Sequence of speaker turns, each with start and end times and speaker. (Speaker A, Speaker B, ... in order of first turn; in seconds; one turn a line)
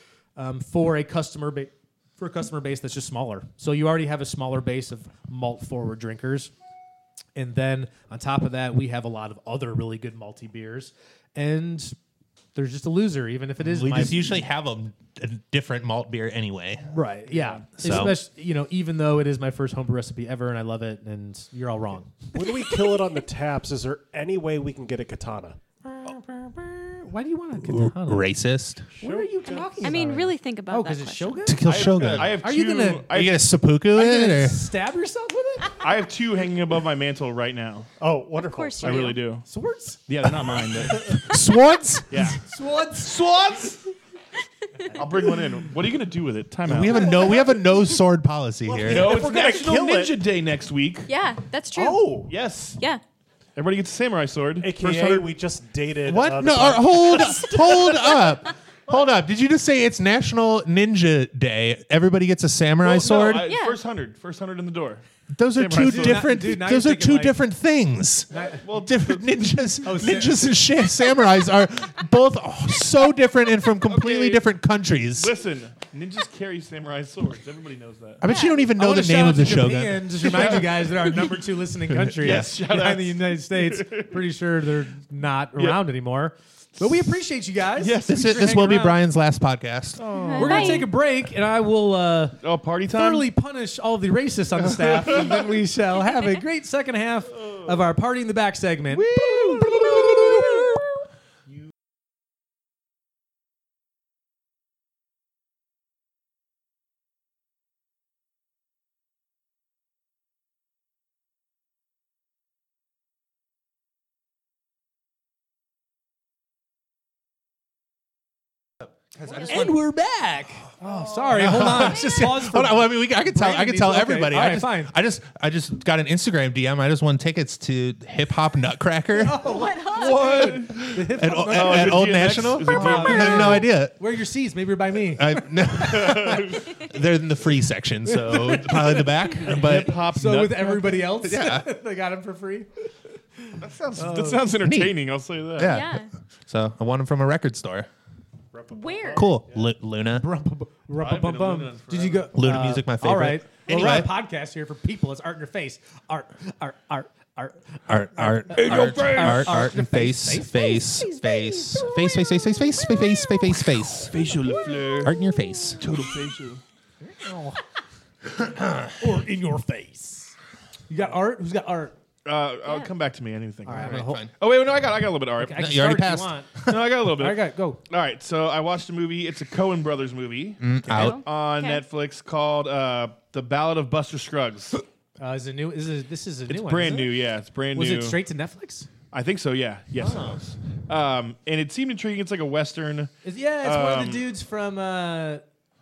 Speaker A: 0.4-6.5
Speaker A: 7.4-12.0
Speaker A: 12.6-14.3
Speaker B: 13.6-16.9
Speaker A: 16.9-22.3
Speaker C: 17.3-17.6
Speaker B: 17.8-18.2
Speaker D: 22.3-25.6
Speaker A: 25.9-28.3
Speaker B: 27.6-28.9
Speaker D: 28.9-29.9
Speaker A: 29.0-31.6
Speaker E: 29.8-31.6
Speaker B: 31.5-32.4
Speaker C: 31.6-33.4
Speaker A: 32.4-33.1
Speaker B: 33.1-34.7
Speaker A: 33.9-35.9
Speaker C: 35.8-37.9
Speaker D: 38.0-39.2
Speaker E: 38.4-39.2
Speaker C: 38.8-39.4
Speaker A: 39.4-40.0
Speaker C: 40.1-41.3
Speaker B: 41.2-42.4
Speaker C: 42.1-42.4
Speaker A: 42.4-43.2
Speaker C: 43.0-43.9
Speaker C: 45.0-47.4
Speaker B: 46.7-49.2
Speaker D: 47.0-47.5
Speaker D: 48.6-50.2
Speaker C: 48.9-51.1
Speaker E: 51.1-52.2
Speaker D: 51.8-52.3
Speaker C: 52.3-52.8
Speaker C: 53.6-55.3
Speaker D: 54.6-58.2
Speaker B: 56.1-63.5
Speaker C: 62.8-65.0
Speaker E: 63.5-63.8
Speaker B: 65.3-75.3
Speaker C: 65.5-66.3
Speaker A: 65.7-67.4
Speaker C: 68.3-69.4
Speaker A: 69.8-70.5
Speaker C: 73.8-74.4
Speaker C: 75.2-78.2
Speaker B: 78.2-80.7
Speaker E: 78.2-78.7
Speaker A: 78.8-89.0
Speaker C: 80.3-81.3
Speaker C: 82.0-84.1
Speaker C: 87.8-88.8
Speaker B: 88.1-90.0
Speaker C: 90.0-90.9
Speaker E: 90.1-90.9
Speaker A: 90.4-100.8
Speaker C: 92.4-93.3
Speaker C: 94.7-95.5
Speaker C: 98.9-100.7
Speaker B: 119.2-119.7
Speaker A: 119.5-124.9
Speaker B: 121.3-129.4
Speaker A: 129.2-136.4
Speaker E: 129.4-130.6
Speaker C: 129.8-133.7
Speaker B: 131.2-133.9
Speaker B: 135.1-140.0
Speaker C: 135.9-136.7
Speaker A: 138.1-142.7
Speaker C: 139.4-141.1
Speaker B: 141.2-141.7
Speaker A: 143.4-144.5
Speaker C: 143.6-145.8
Speaker B: 144.6-144.9
Speaker B: 145.6-147.9
Speaker E: 145.6-146.1
Speaker D: 148.5-149.7
Speaker E: 148.7-149.3
Speaker B: 149.1-150.2
Speaker A: 150.1-162.9
Speaker C: 151.0-152.3
Speaker B: 152.4-154.1
Speaker C: 153.7-154.0
Speaker B: 157.9-164.2
Speaker C: 158.5-159.6
Speaker C: 163.9-165.2
Speaker B: 165.0-165.8
Speaker C: 165.8-166.6
Speaker A: 167.0-167.6
Speaker B: 168.5-168.9
Speaker A: 169.0-170.3
Speaker A: 170.9-171.9
Speaker C: 172.3-175.7
Speaker E: 172.7-172.9
Speaker A: 173.7-174.3
Speaker B: 173.7-174.3
Speaker A: 175.4-177.8
Speaker B: 175.6-176.7
Speaker C: 176.7-184.8
Speaker B: 180.6-181.2
Speaker E: 180.9-181.8
Speaker A: 185.2-187.2
Speaker C: 186.5-188.2
Speaker A: 187.8-188.9
Speaker C: 189.1-194.2
Speaker A: 190.0-190.4
Speaker A: 193.2-195.4